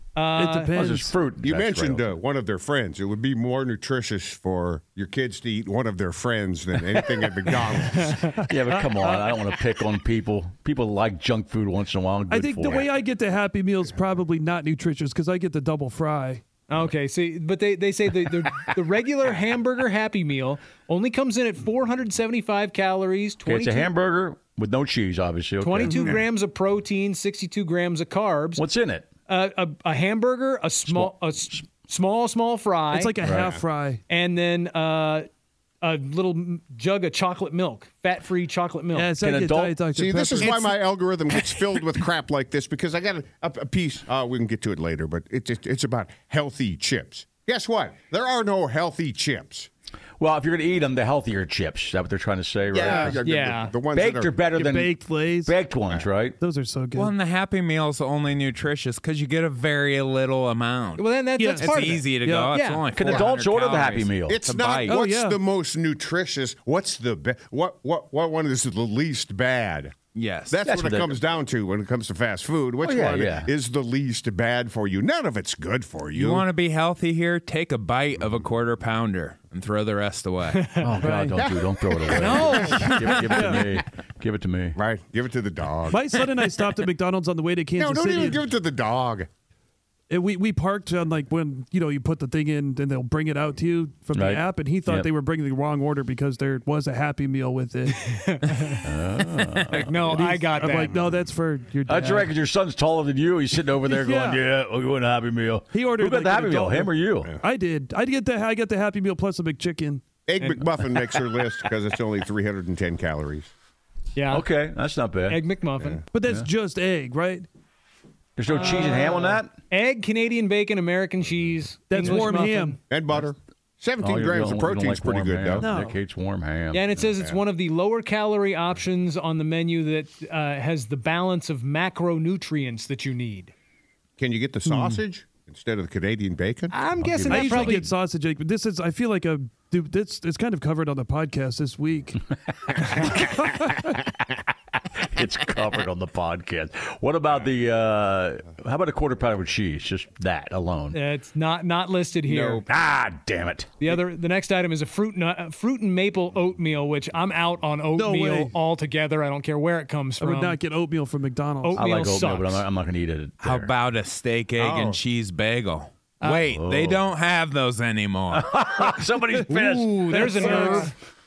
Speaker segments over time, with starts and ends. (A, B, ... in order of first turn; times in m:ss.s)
0:00.1-0:00.9 A
0:00.3-0:01.2 B
0:00.7-0:02.2 C
0:01.4-0:08.3 D
0:08.5-0:12.9 C
0:08.5-0:09.3 B
0:12.3-0:16.4 B
0:16.7-0:23.9 A
0:23.4-0:26.1 C
0:25.6-0:28.6 A
0:28.6-0:29.1 C
0:29.3-0:33.2 A
0:30.8-0:31.6 C
0:32.9-0:34.0 B
0:33.2-0:33.6 C
0:33.3-0:33.6 D
0:34.1-0:35.3 A
0:35.8-0:39.1 A
0:38.9-0:40.7 B
0:39.2-0:39.8 C
0:40.0-0:49.7 D
0:50.2-0:53.2 C
0:52.7-0:54.4 D
0:52.8-0:53.1 B
0:53.2-0:53.7 A
0:53.9-0:56.4 C
0:54.5-0:55.6 B
0:56.4-0:57.1 B
0:56.9-1:01.0 E
1:01.0-1:02.8 A
1:01.4-1:01.8 B
1:01.6-1:05.0 E
1:02.9-1:04.4 C
1:03.1-1:03.3 D
1:04.2-1:09.9 D
1:04.9-1:05.4 B
1:10.1-1:10.6 E
1:10.5-1:16.4 D
1:10.6-1:11.2 C
1:12.8-1:13.5 C
1:16.1-1:20.7 E
1:20.8-1:24.8 C
1:21.0-1:21.4 B
1:21.4-1:22.9 D
1:22.2-1:23.2 A
1:22.8-1:23.7 B
1:24.7-1:26.0 D
1:25.9-1:28.5 B
1:27.8-1:29.3 D
1:30.1-1:38.1 B
1:34.1-1:35.1 C
1:38.1-1:38.9 A
1:38.8-1:40.4 C
1:39.5-1:41.0 A
1:40.1-1:42.3 B
1:41.8-1:47.3 C
1:43.9-1:44.4 B
1:45.7-1:50.0 B
1:50.2-1:53.5 D
1:50.4-1:50.6 A
1:54.1-1:54.4 A
1:54.3-1:55.4 C
1:55.2-1:56.0 A
1:56.1-1:57.5 B
1:56.2-1:56.5 C
1:58.4-1:59.5 C
1:58.6-1:59.0 B
1:58.6-2:02.8 A
2:01.9-2:02.8 B
2:02.9-2:05.7 D
2:04.0-2:07.1 C
2:05.6-2:06.0 B
2:06.7-2:13.5 A
2:14.2-2:17.7 D
2:14.6-2:15.0 B
2:16.7-2:17.9 A
2:17.3-2:22.2 B
2:22.8-2:24.0 C
2:24.9-2:31.0 C
2:30.9-2:32.6 A
2:32.3-2:32.6 D
2:32.6-2:34.0 C
2:33.8-2:40.6 A
2:37.9-2:38.5 B
2:40.2-2:41.8 B
2:41.6-2:42.6 A
2:41.7-2:43.7 C
2:43.4-2:48.5 E
2:44.6-2:45.0 D
2:46.5-2:47.1 C
2:48.3-2:50.5 C
2:49.5-2:50.9 A
2:50.1-2:50.9 B